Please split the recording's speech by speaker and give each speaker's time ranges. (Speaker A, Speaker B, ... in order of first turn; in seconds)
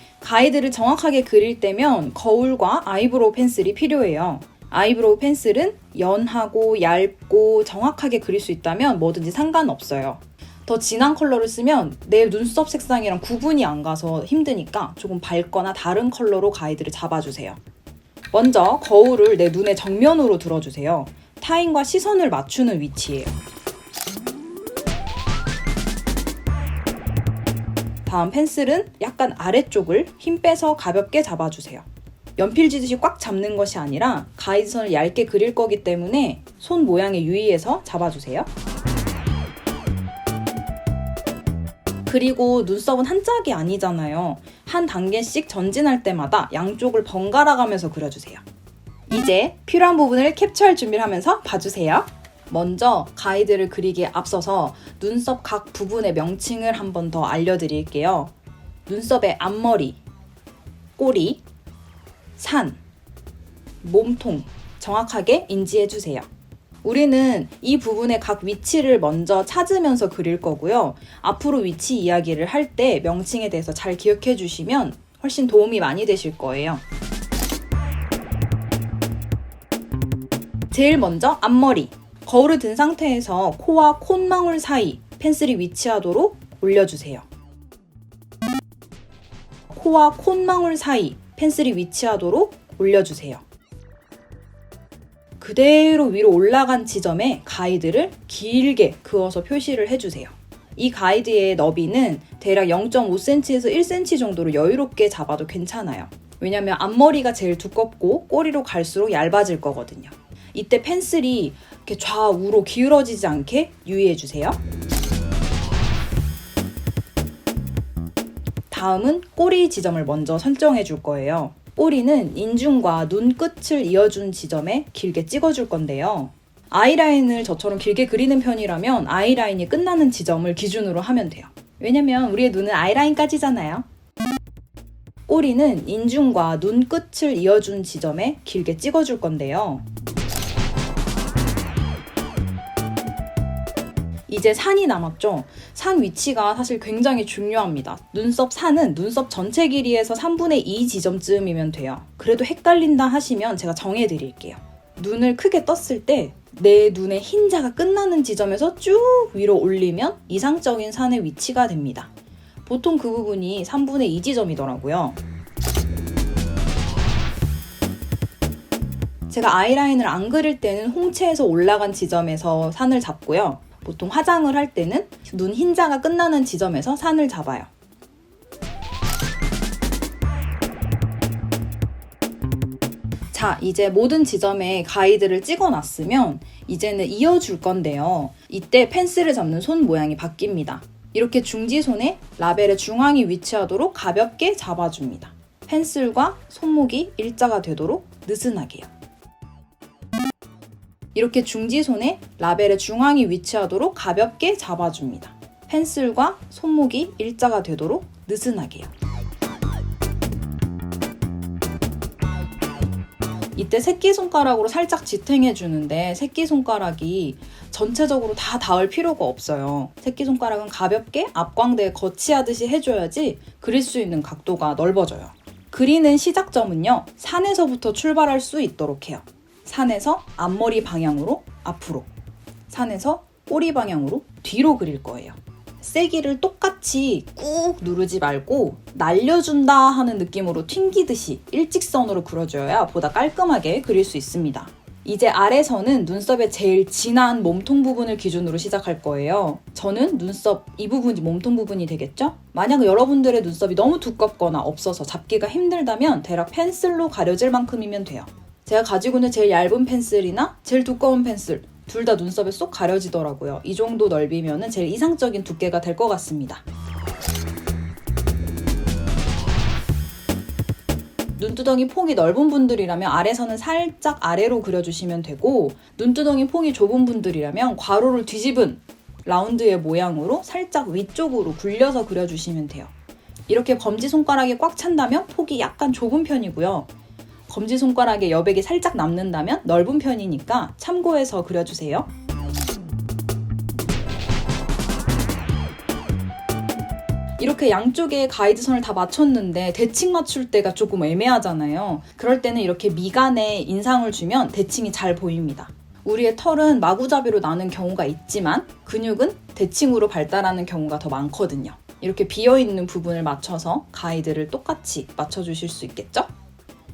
Speaker A: 0.2-17.6, 18.3-23.4, 28.1-38.5, 42.1-48.4, 49.1-58.3, 58.9-60.0, 61.0-61.4, 62.4-62.8, 63.8-66.3, 66.8-76.8, 80.7-87.2, 89.7-93.4, 95.4-114.6, 118.7-133.9, 135.3-139.8, 144.3-162.1, 162.7-165.2, 169.3-177.7, 183.3-198.9, 201.1-208.9, 213.6-232.1, 232.7-266.6, 271.4-282.9, 283.5-286.9, 287.5-292.1, 297.4-316.3